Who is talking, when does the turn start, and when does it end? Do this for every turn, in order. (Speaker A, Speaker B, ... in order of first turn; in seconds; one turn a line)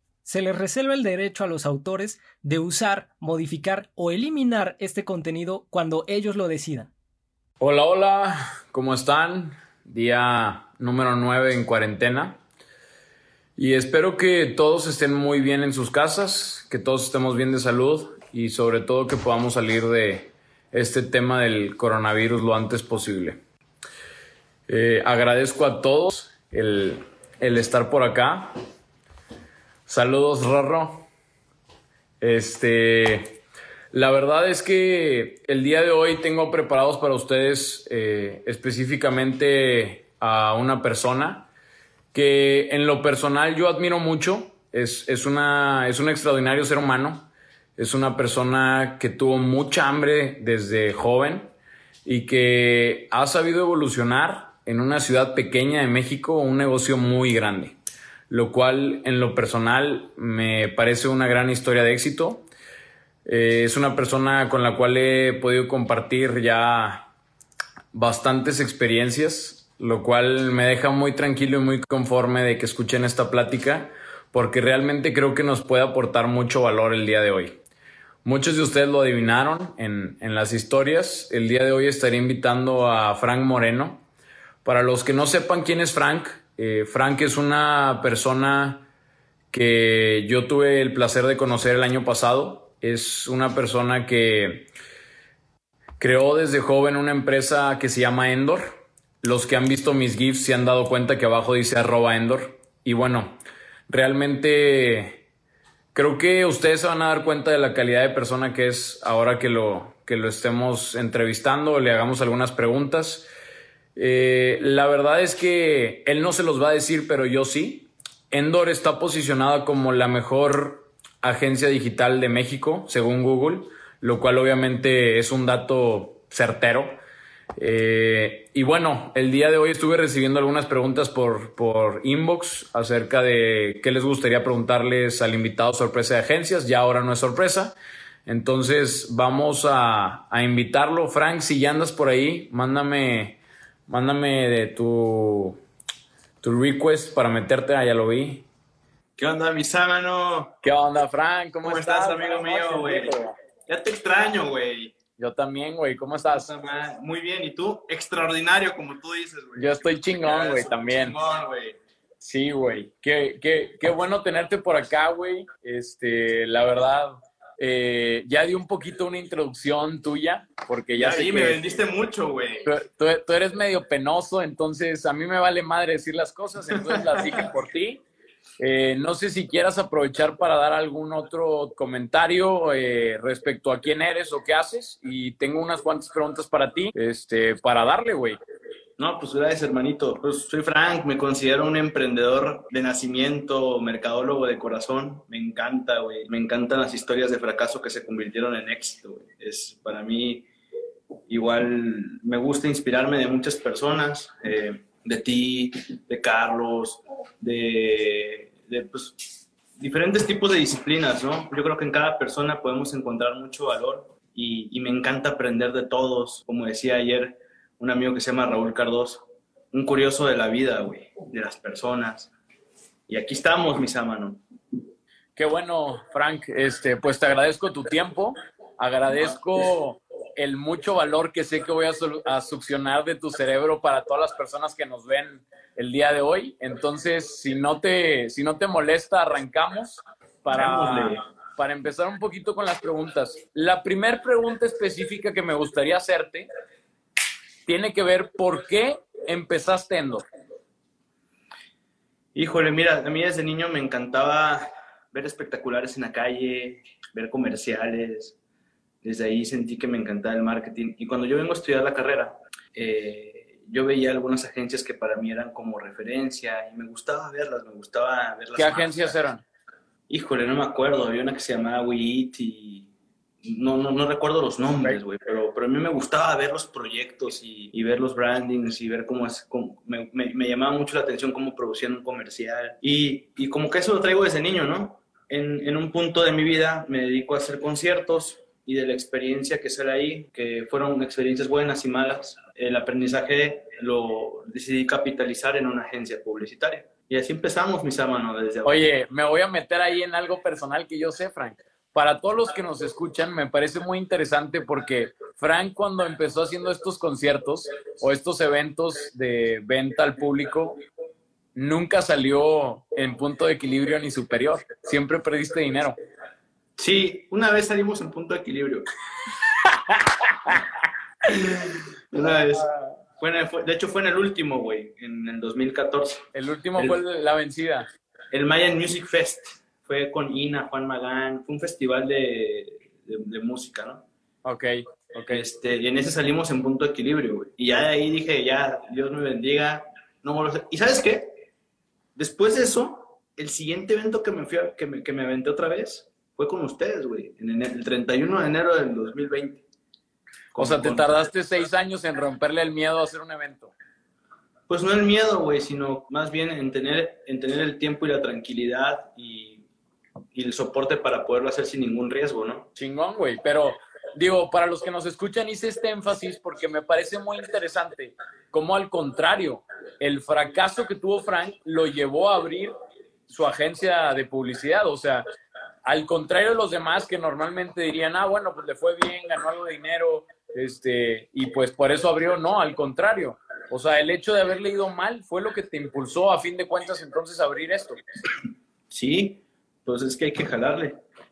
Speaker A: 0.2-6.9
Speaker B: 7.6-12.4
Speaker B: 13.6-23.4
Speaker B: 24.7-28.5
Speaker B: 29.9-31.1
Speaker B: 32.2-33.4
Speaker B: 33.9-41.5
Speaker B: 42.1-51.5
Speaker B: 52.0-57.8
Speaker B: 58.3-62.5
Speaker B: 63.2-67.1
Speaker B: 67.9-77.6
Speaker B: 78.2-84.0
Speaker B: 84.6-88.9
Speaker B: 89.5-94.7
Speaker B: 96.0-105.2
Speaker B: 105.9-113.3
Speaker B: 114.0-127.0
Speaker B: 127.6-145.6
Speaker B: 146.4-148.4
Speaker C: 149.2-150.6
Speaker B: 150.6-153.4
Speaker C: 151.6-155.0
Speaker B: 155.2-156.5
Speaker C: 156.3-161.8
Speaker B: 159.6-161.2
Speaker B: 162.2-171.6
Speaker C: 170.9-172.7
Speaker B: 172.6-178.0
Speaker C: 176.7-177.5
Speaker B: 178.6-188.4
Speaker C: 189.0-200.5
Speaker C: 201.3-222.3
Speaker C: 223.1-224.4
Speaker B: 225.3-246.5
Speaker C: 229.1-229.4
Speaker C: 240.5-241.2
Speaker B: 247.7-250.2
Speaker C: 252.3-258.4
Speaker C: 259.0-269.2
Speaker B: 268.6-269.4
Speaker C: 270.1-272.9
Speaker C: 273.4-298.9
Speaker B: 298.6-310.8
Speaker B: 311.5-315.9
Speaker C: 316.8-318.9
Speaker B: 319.6-320.6
Speaker C: 321.3-327.0
Speaker B: 326.3-327.9
Speaker C: 328.3-334.0
Speaker B: 334.4-335.4
Speaker C: 335.3-341.4
Speaker C: 342.1-349.6
Speaker C: 350.5-351.2
Speaker B: 350.6-353.7
Speaker C: 354.7-359.6
Speaker C: 360.3-362.7
Speaker B: 362.8-372.7
Speaker B: 373.3-375.2
Speaker B: 375.8-388.0
Speaker C: 388.9-391.0